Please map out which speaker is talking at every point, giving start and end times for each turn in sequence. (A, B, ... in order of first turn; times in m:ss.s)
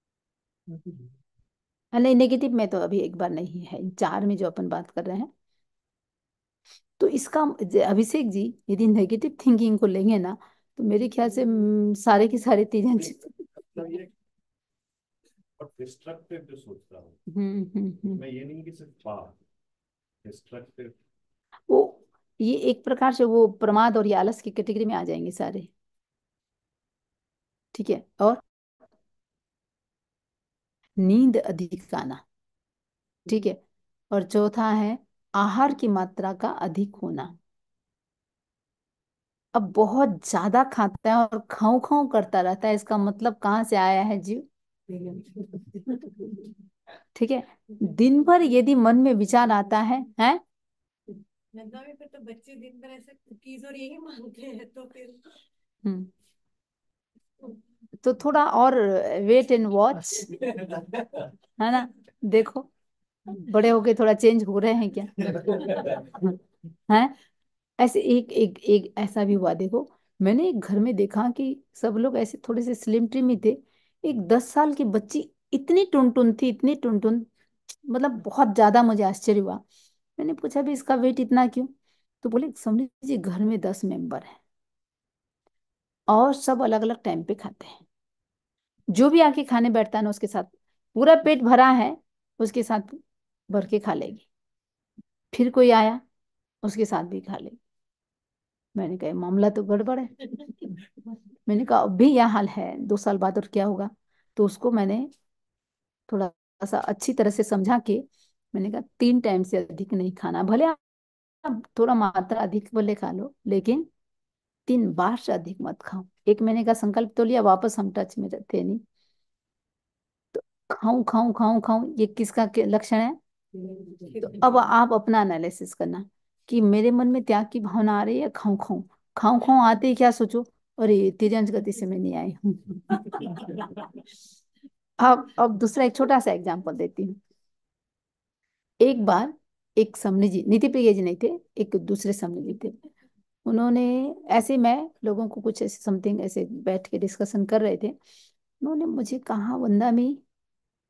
0:01.9-0:05.3 A
0:07.0-0:13.3 A
0:13.6-0:14.1 B
0:15.6-0:17.2 B
0:17.3-0:18.2 A
0:18.1-0:19.4 B
0:20.2-0:21.0 B
0:21.7-0:25.7 A
0:27.7-0:28.4 A
0:31.0-0:32.2 A
0:33.3-0:33.6 A
0:34.1-0:37.4 A
0:39.5-0:44.4 A
0:44.9-0:46.4 C
0:47.2-0:50.4 A
0:51.5-0:55.4 C
0:58.0-1:00.3 A
1:01.6-1:02.7 A
1:03.3-1:05.6 A
1:06.9-1:07.2 A
1:07.8-1:17.3 A
1:17.9-1:19.6 A
1:20.2-1:24.4 A
1:26.1-1:27.8 A
1:28.9-1:34.3 A
1:35.3-1:36.0 A
1:36.6-1:37.6 A
1:38.8-1:40.7 A
1:41.5-1:45.1 A
1:46.1-1:50.8 A
1:51.4-1:53.9 A
1:54.7-1:58.8 A
2:00.3-2:03.2 A
2:04.1-2:13.9 A
2:15.0-2:17.2 A
2:18.8-2:22.8 A
2:23.5-2:28.0 A
2:28.6-2:30.2 A